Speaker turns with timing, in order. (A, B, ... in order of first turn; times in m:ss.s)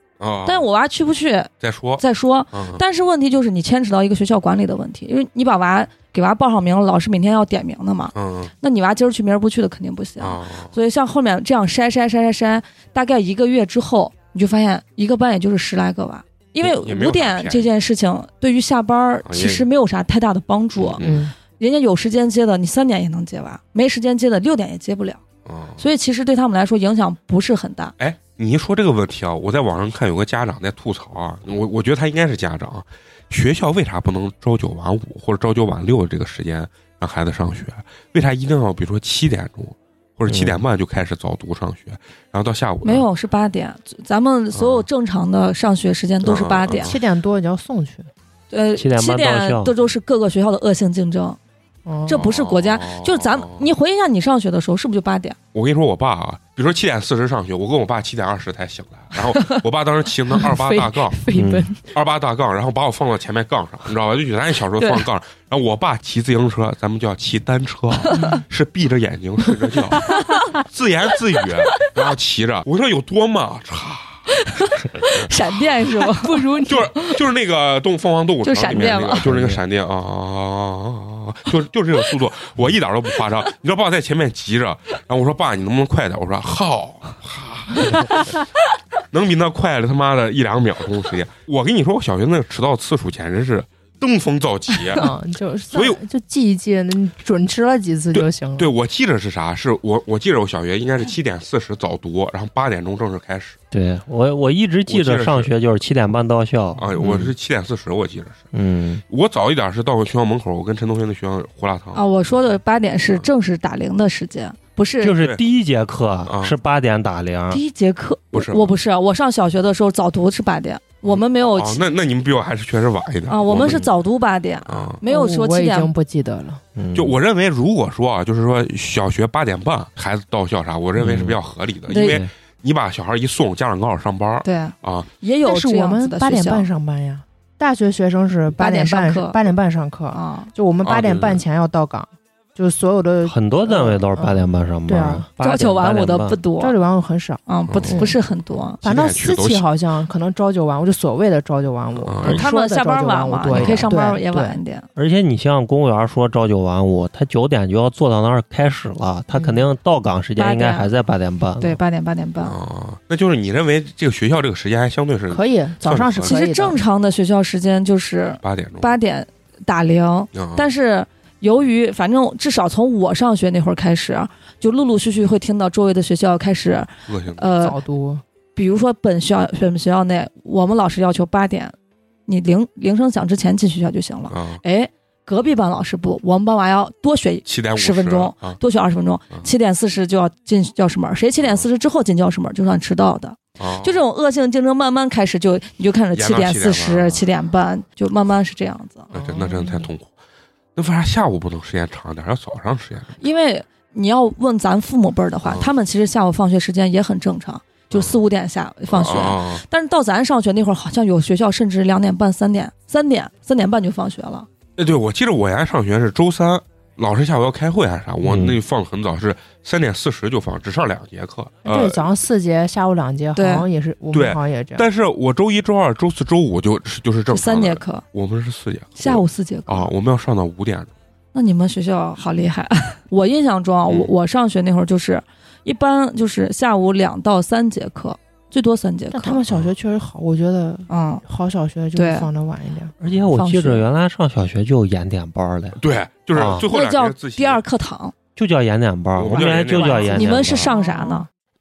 0:00.2-0:00.6 A
0:00.5-0:21.0 B
0:01.6-0:02.8 A
0:08.2-0:08.5 A
0:10.2-0:10.7 A
0:16.6-0:17.7 A
0:19.2-0:19.7 A
0:20.8-0:21.3 A
0:21.0-0:21.3 C
0:21.6-0:25.2 B
0:25.5-0:25.8 A
0:25.8-0:27.9 B
0:28.0-0:43.1 A
0:40.3-0:40.6 D
0:42.8-0:47.0 B
0:44.6-0:44.9 A
0:46.2-0:47.0 A
0:46.7-0:48.1 C
0:48.5-0:51.4 B
0:48.8-0:49.7 D
0:51.9-0:52.2 C
0:52.1-0:55.4 B
0:52.1-0:53.7 A
0:55.5-1:01.2 A
1:00.4-1:01.9 C
1:01.3-1:01.7 D
1:01.9-1:14.2 A
1:08.0-1:08.4 B
1:08.1-1:08.4 C
1:10.0-1:10.6 B
1:14.3-1:16.5 B
1:15.9-1:16.9 C
1:16.7-1:28.3 A
1:18.4-1:19.3 B
1:19.3-1:19.6 D
1:29.1-1:35.0 A
1:35.0-1:38.7 C
1:35.7-1:36.0 A
1:38.1-1:43.6 A
1:43.7-1:47.3 D
1:44.9-1:45.5 A
1:46.8-1:48.5 A
1:48.5-1:49.0 D
1:49.1-1:52.0 A
1:52.0-1:55.2 B
1:55.0-1:57.6 D
1:56.3-1:56.6 A
1:57.5-2:01.8 B
1:58.3-1:58.7 A
2:01.1-2:03.9 A
2:03.3-2:05.9 B
2:04.7-2:05.0 A
2:05.0-2:06.6 C
2:06.8-2:07.2 D
2:07.0-2:15.1 A
2:11.0-2:11.4 D
2:11.9-2:12.2 B
2:12.0-2:12.3 D
2:14.4-2:16.7 B
2:15.4-2:25.2 C
2:18.6-2:19.4 B
2:20.1-2:20.5 B
2:20.8-2:21.4 A
2:23.2-2:26.4 D
2:25.4-2:26.8 B
2:26.6-2:28.2 C
2:27.5-2:28.8 B
2:27.7-2:28.1 A
2:28.8-2:29.6 A
2:28.8-2:34.6 C
2:32.0-2:32.5 A
2:32.2-2:34.9 B
2:33.5-2:33.8 A
2:33.6-2:33.8 D
2:35.0-2:41.8 D
2:39.3-2:39.7 C
2:40.4-2:40.9 B
2:41.6-2:42.6 B
2:42.4-2:46.4 A
2:45.3-2:46.8 C
2:46.2-2:57.8 B
2:48.4-2:48.9 A
2:50.3-2:50.7 A
2:57.1-2:57.4 A
2:57.6-2:58.2 C
2:58.6-3:01.8 B
3:02.3-3:19.1 B
3:04.3-3:04.6 A
3:07.5-3:08.6 A
3:13.6-3:14.0 A
3:16.1-3:17.2 A
3:19.1-3:19.9 C
3:19.1-3:20.1 A
3:20.8-3:23.2 A
3:23.2-3:34.5 B
3:28.9-3:29.6 A
3:34.8-3:42.0 A
3:38.2-3:38.6 D
3:41.7-3:44.9 C
3:43.4-3:43.7 B
3:44.1-3:50.9 A
3:47.3-3:48.0 B
3:49.0-3:49.9 B
3:51.3-3:59.4 B
3:59.1-4:03.0 C
4:00.9-4:01.2 B
4:02.0-4:02.3 B
4:03.0-4:05.8 D
4:03.3-4:03.8 B
4:05.8-4:07.6 A
4:06.3-4:06.6 D
4:06.7-4:08.1 B
4:08.4-4:10.7 D
4:09.2-4:10.5 A
4:10.1-4:11.3 B
4:10.5-4:11.3 C